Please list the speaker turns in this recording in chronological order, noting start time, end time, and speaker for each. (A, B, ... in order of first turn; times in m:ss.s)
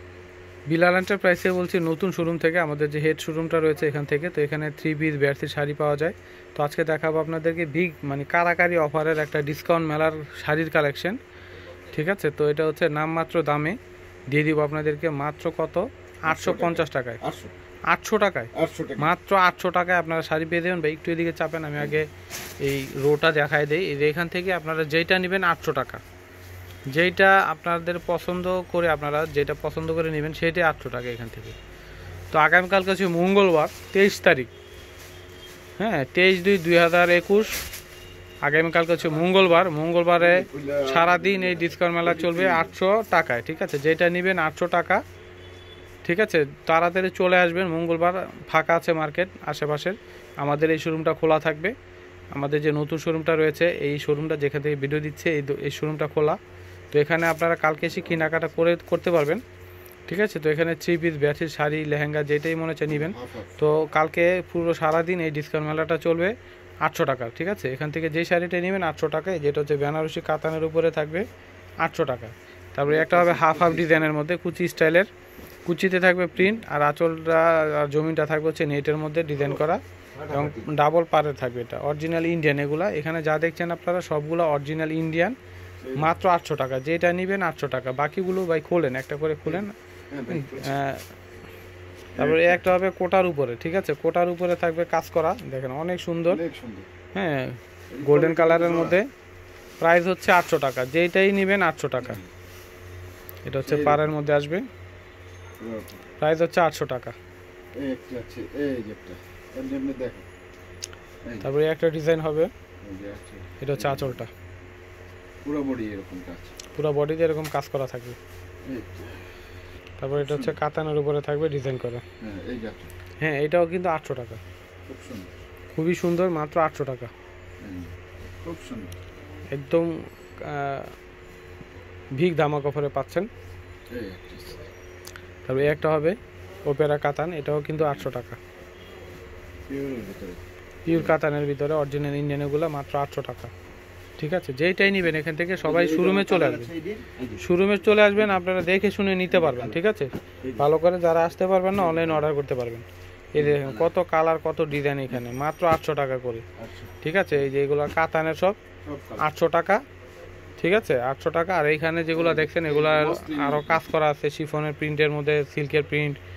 0:00.7-0:11.2 A
0:11.9-0:13.8 A
0:14.3-0:17.2 A
0:16.3-0:17.5 B
0:17.9-0:22.1 A
0:18.5-0:19.1 B
0:22.6-0:26.0 A
0:26.9-0:31.6 A
0:32.3-0:34.5 A
0:35.8-0:37.6 A
0:38.4-0:45.0 A
0:40.2-0:42.8 B
0:46.0-0:51.7 A
0:52.3-0:56.4 A
0:56.9-0:59.4 A
0:57.9-0:58.4 B
1:00.1-1:11.2 A
1:02.9-1:03.6 B
1:11.8-1:15.1 A
1:12.8-1:14.1 B
1:15.6-1:25.4 A
1:20.1-1:20.7 B
1:25.8-1:26.1 B
1:25.9-1:29.7 A
1:29.4-1:30.8 B
1:30.3-1:31.0 A
1:32.1-1:32.6 B
1:32.2-1:36.4 A
1:36.3-1:36.9 B
1:37.1-1:39.1 A
1:37.9-1:39.0 B
1:39.8-1:42.2 A
1:42.0-1:42.3 B
1:43.4-1:44.7 A
1:43.6-1:44.0 B
1:45.6-1:46.0 B
1:46.2-1:47.2 A
1:47.8-1:50.3 B
1:51.2-1:51.5 B
1:51.4-1:52.5 A
1:52.8-1:54.2 B
1:53.6-1:54.3 A
1:55.4-1:56.6 B
1:56.7-1:58.2 A
1:58.6-1:59.4 B
2:00.0-2:02.0 A
2:00.2-2:00.6 B
2:02.2-2:02.9 B
2:03.2-2:04.4 A
2:04.9-2:05.3 B
2:05.7-2:07.1 A
2:07.6-2:08.9 B
2:09.5-2:10.9 A
2:12.2-2:13.3 A
2:13.9-2:14.7 B
2:15.4-2:18.4 A
2:17.8-2:18.1 B
2:19.7-2:21.2 B
2:20.8-2:23.5 A
2:24.2-2:26.7 A
2:25.6-2:27.5 B
2:27.4-2:36.4 A
2:29.3-2:29.8 B
2:30.4-2:30.7 B
2:31.7-2:32.3 B
2:33.4-2:33.9 B
2:36.6-2:36.9 B
2:37.0-2:38.6 A
2:38.8-2:39.2 B
2:39.2-2:39.8 A
2:40.6-2:46.2 A
2:42.1-2:43.8 B